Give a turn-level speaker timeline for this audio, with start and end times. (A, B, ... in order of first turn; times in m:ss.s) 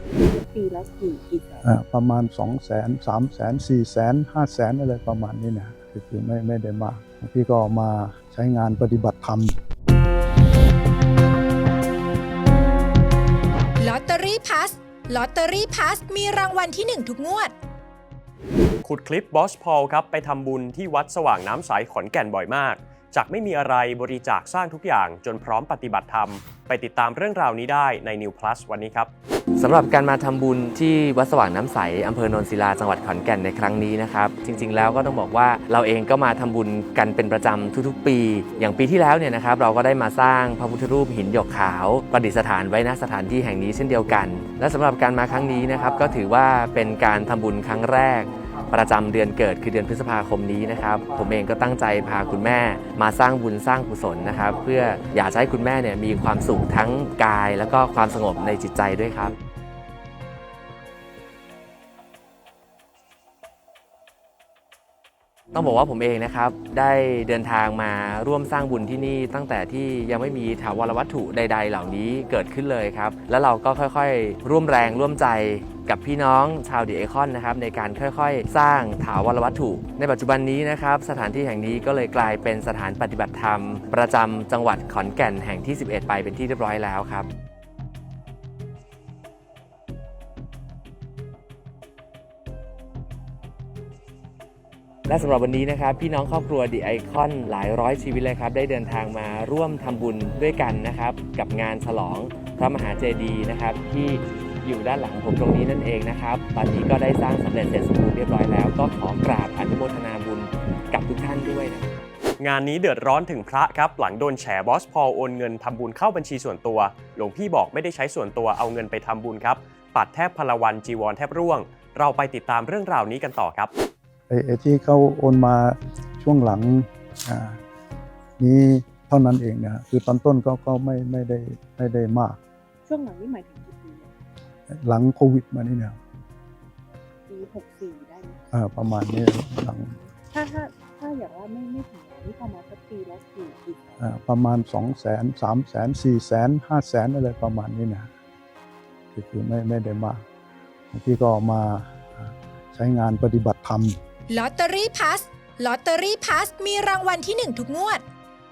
0:00.2-0:01.7 A
0:01.6-0:09.6 B
0:13.8-0:17.5 C
0:18.8-0:29.1 D
0:29.6-0:59.3 E
1:05.5-1:27.3 E
1:35.1-1:51.9 E
1:52.4-2:03.7 D
2:04.3-2:07.6 B
2:08.4-2:12.4 B
2:12.8-2:14.1 A
2:14.7-2:16.0 B
2:17.3-2:18.4 A
2:18.5-2:20.0 B
2:20.3-2:24.0 A
2:24.0-2:28.1 B
2:29.1-2:30.2 B
2:30.9-2:34.0 B
2:34.3-2:38.0 C